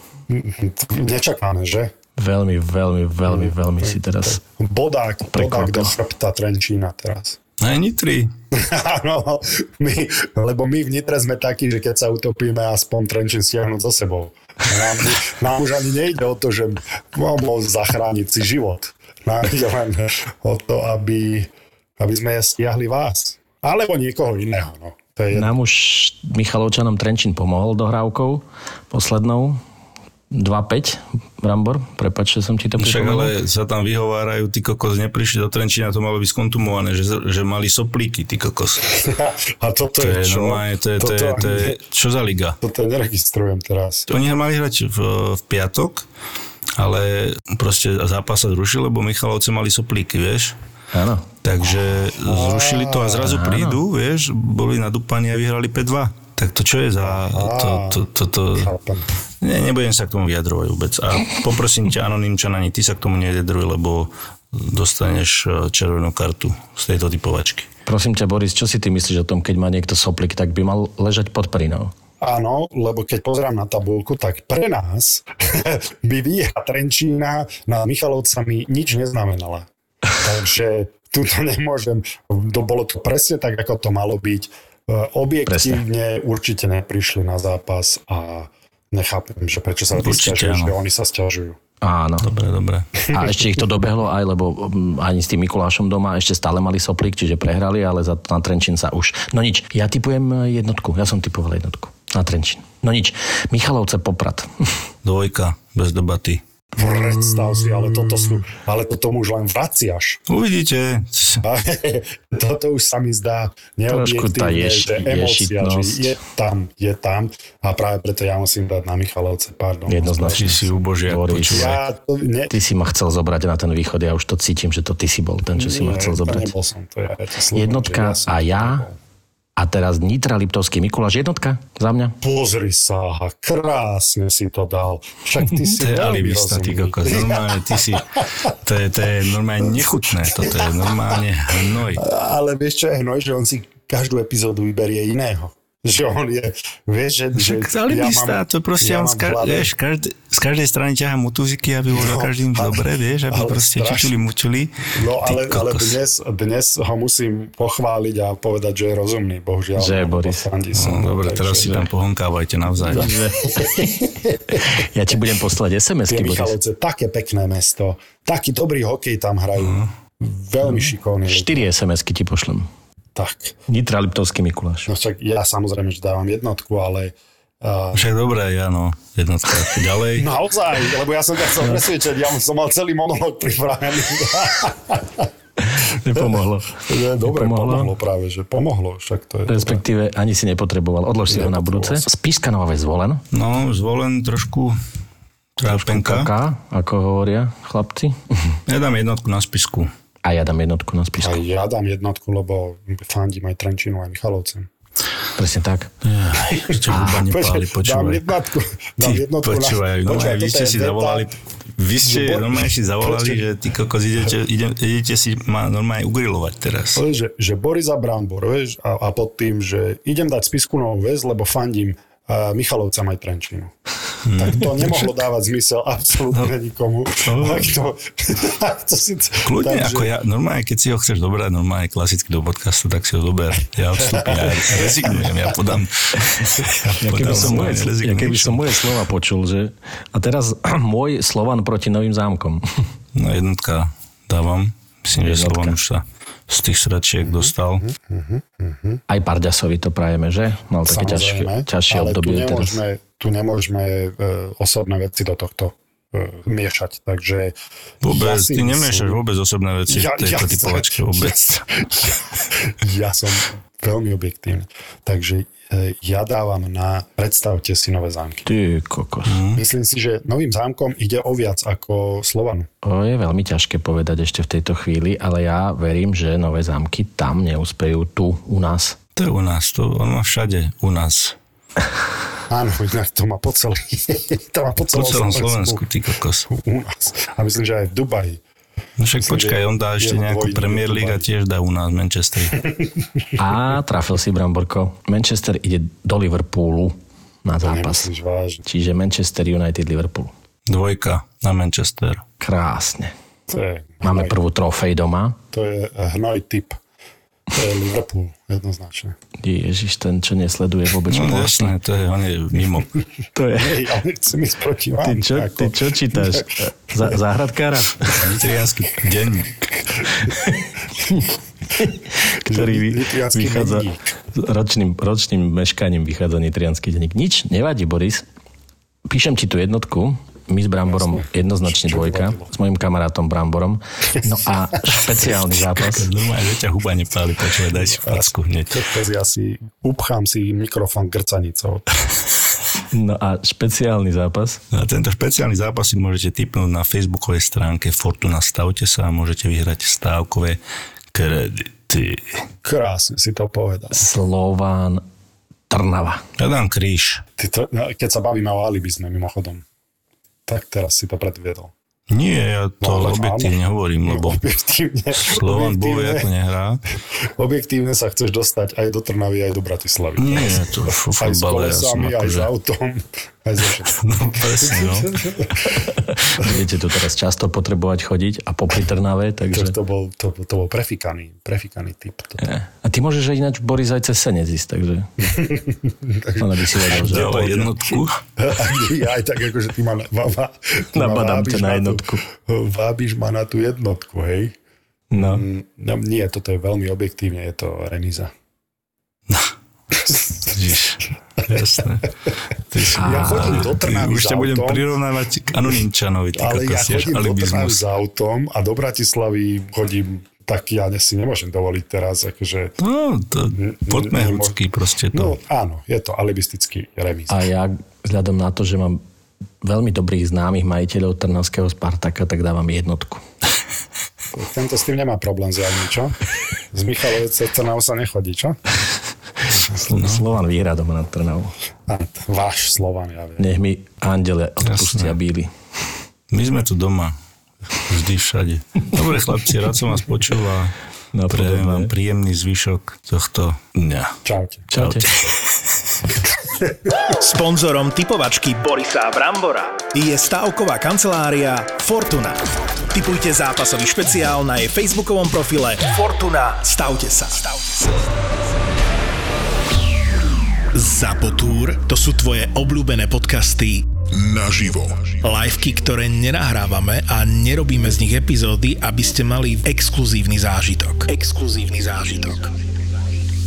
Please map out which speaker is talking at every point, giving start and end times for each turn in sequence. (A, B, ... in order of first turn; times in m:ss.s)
0:00.3-0:01.9 A
0:02.2-0:04.4 B
0:03.3-0:07.4 A
0:05.3-0:06.0 B
0:07.6-0:08.3 C
0:08.5-0:25.6 A
0:25.3-0:29.6 B
0:30.3-0:33.3 B
0:32.8-0:38.8 C
0:39.0-0:41.8 A
0:40.0-0:42.6 C
0:42.6-0:44.1 A
0:44.1-0:46.0 C
0:46.8-0:50.5 C
0:50.9-0:51.3 B
0:51.4-0:58.7 C
0:52.3-0:53.2 A
0:53.2-0:53.8 B
0:57.0-0:59.0 A
0:59.4-1:07.7 C
1:07.8-1:11.9 B
1:12.2-1:19.6 A
1:20.2-1:31.6 A
1:25.5-1:25.8 B
1:30.0-1:30.8 C
1:31.8-1:32.3 B
1:32.2-1:32.9 C
1:33.1-1:44.5 B
1:45.0-1:48.3 C
1:46.8-1:50.2 A
1:50.3-1:51.4 C
1:51.4-2:00.6 A
1:53.9-1:56.2 B
1:59.9-2:01.8 B
2:00.4-2:01.8 C
2:01.5-2:02.5 A
2:02.5-2:06.5 B
2:05.6-2:09.0 A
2:07.5-2:08.8 B
2:09.6-2:12.1 B
2:12.2-2:18.2 A
2:15.8-2:18.0 C
2:18.6-2:22.0 C
2:19.6-2:21.2 A
2:22.0-2:29.7 A
2:27.3-2:36.0 C
2:31.9-2:34.2 A
2:34.9-2:41.9 A
2:39.8-2:40.5 B
2:40.7-2:43.1 C
2:41.6-2:41.9 B
2:42.8-2:43.8 B
2:42.9-2:44.8 A
2:44.7-2:46.6 B
2:46.1-2:51.7 A
2:49.6-2:49.8 C
2:50.6-2:52.7 B
2:53.1-2:53.6 A
2:53.7-2:54.9 B
2:54.9-2:58.1 A
2:57.9-3:00.3 C
3:00.2-3:05.2 A
3:05.8-3:06.7 B
3:06.2-3:09.8 A
3:07.2-3:07.9 B
3:09.5-3:13.2 B
3:11.3-3:12.1 A
3:13.3-3:14.8 C
3:15.6-3:16.3 C
3:15.6-3:18.2 B
3:18.6-3:19.9 C
3:20.2-3:21.4 B
3:21.2-3:24.7 A
3:25.4-3:25.9 B
3:26.0-3:28.3 C
3:26.5-3:31.3 A
3:26.9-3:27.3 B
3:29.0-3:37.0 C
3:32.0-3:33.4 A
3:36.9-3:43.7 A
3:44.2-3:45.1 C
3:44.4-3:50.1 A
3:47.2-3:47.7 C
3:49.4-3:58.7 C
3:54.0-3:55.3 A
3:57.0-4:02.6 B
3:57.4-3:57.6 A
4:03.1-4:07.8 C
4:05.2-4:05.8 B
4:07.2-4:09.0 A
4:09.1-4:12.8 B
4:10.8-4:17.5 A
4:18.0-4:21.6 C
4:18.0-4:19.2 A
4:19.9-4:28.5 A
4:28.4-4:29.4 B
4:29.2-4:29.6 C
4:29.6-4:32.7 A
4:32.8-4:39.0 B
4:39.1-4:41.4 C
4:42.5-4:45.8 A
4:44.9-4:46.5 C
4:46.5-4:48.4 A
4:49.0-4:52.5 C
4:49.2-4:51.2 A
4:52.5-4:52.9 A
4:53.4-4:58.1 B
4:57.6-4:58.6 A
4:58.6-5:00.3 B
5:00.7-5:02.2 C
5:02.4-5:03.1 B
5:03.5-5:04.4 A
5:04.0-5:05.4 B
5:05.5-5:06.8 A
5:07.5-5:09.2 A
5:09.4-5:11.8 B
5:11.1-5:12.9 C
5:13.3-5:13.9 B
5:13.5-5:16.4 A
5:15.0-5:18.3 B
5:18.2-5:19.5 C
5:22.5-5:24.1 A
5:22.5-5:28.2 B
5:29.1-5:36.1 B
5:30.8-5:32.5 A
5:35.7-5:38.8 C
5:37.8-5:41.8 A
5:42.9-5:44.6 B
5:44.7-5:50.6 C
5:51.1-5:52.4 C
5:52.6-5:54.1 A
5:53.9-5:55.0 B
5:55.7-5:56.2 B
5:56.4-5:57.2 C
5:57.4-5:59.6 A
6:00.5-6:01.7 A
6:02.1-6:04.4 C
6:02.8-6:06.3 A
6:05.2-6:06.8 C
6:07.4-6:15.7 A
6:10.2-6:12.5 C
6:14.0-6:15.2 C
6:16.1-6:19.8 B
6:19.5-6:22.4 A
6:22.4-6:25.1 B
6:25.3-6:34.5 A
6:26.4-6:27.5 B
6:27.0-6:28.2 C
6:30.9-6:32.2 B
6:35.1-6:35.4 B
6:35.2-6:38.3 A
6:40.0-6:40.5 A
6:40.5-6:42.1 C
6:42.7-6:47.8 C
6:42.9-6:44.8 A
6:43.0-6:43.7 B
6:46.3-6:52.8 A
6:52.8-6:55.3 C
6:53.6-6:54.6 A
6:55.1-6:57.4 A
6:57.3-6:59.0 B
6:59.6-7:03.2 B
7:04.4-7:06.1 A
7:06.7-7:08.6 A
7:09.7-7:11.5 B
7:09.9-7:10.2 C
7:11.9-7:13.4 A
7:13.4-7:15.5 B
7:14.6-7:15.2 C
7:16.3-7:17.2 C
7:17.9-7:20.7 C
7:21.1-7:21.9 B
7:21.3-7:24.2 C
7:24.2-7:24.7 A
7:24.7-7:25.1 B
7:24.8-7:25.6 C
7:27.2-7:38.0 D
7:40.7-7:52.5 D